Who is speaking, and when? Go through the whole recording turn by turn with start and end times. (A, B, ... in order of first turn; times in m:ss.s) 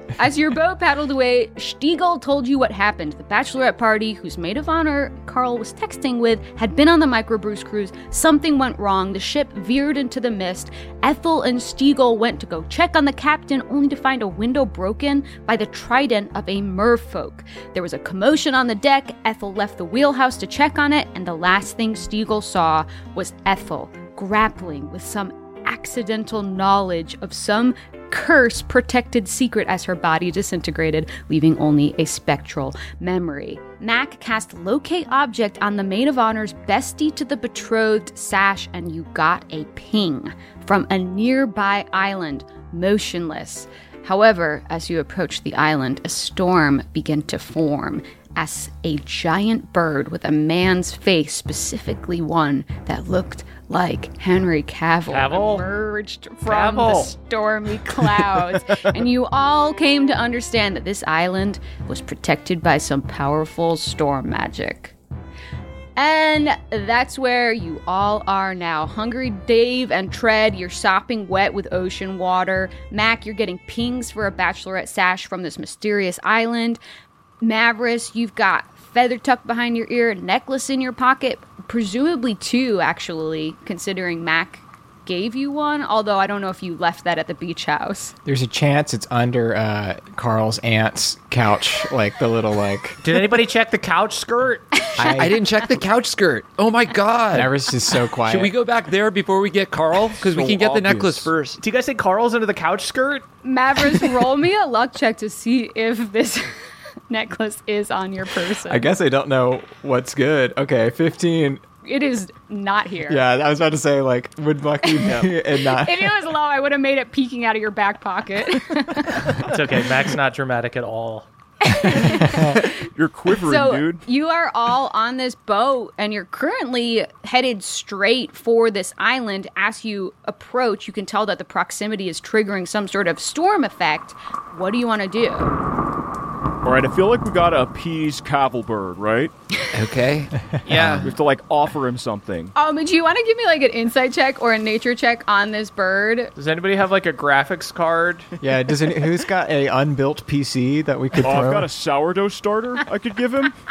0:00.2-1:04.9 A
0:55.1-0:55.7 B
0:56.5-0:57.1 B
1:06.0-1:16.8 A
1:17.4-1:28.1 A
1:28.2-1:33.0 C
1:33.0-1:34.9 B
1:35.0-1:35.4 C
1:35.0-1:37.5 D
1:37.3-1:38.5 C
1:38.3-1:41.6 D
1:40.2-1:41.3 E
1:41.6-1:43.3 B
1:43.4-1:46.5 A
1:47.1-1:48.9 A
1:48.7-1:51.6 C
1:51.8-1:53.2 A
1:53.1-1:56.2 C
1:55.0-1:55.3 E
1:55.6-1:59.4 A
1:59.4-2:01.3 B
2:01.6-2:02.7 A
2:02.6-2:04.0 E
2:03.4-2:15.6 A
2:16.6-2:19.3 E
2:19.7-2:21.1 D
2:20.7-2:21.1 B
2:20.8-2:22.5 E
2:22.6-2:26.3 A
2:26.4-2:28.3 B
2:28.4-2:31.7 C
2:31.2-2:33.5 E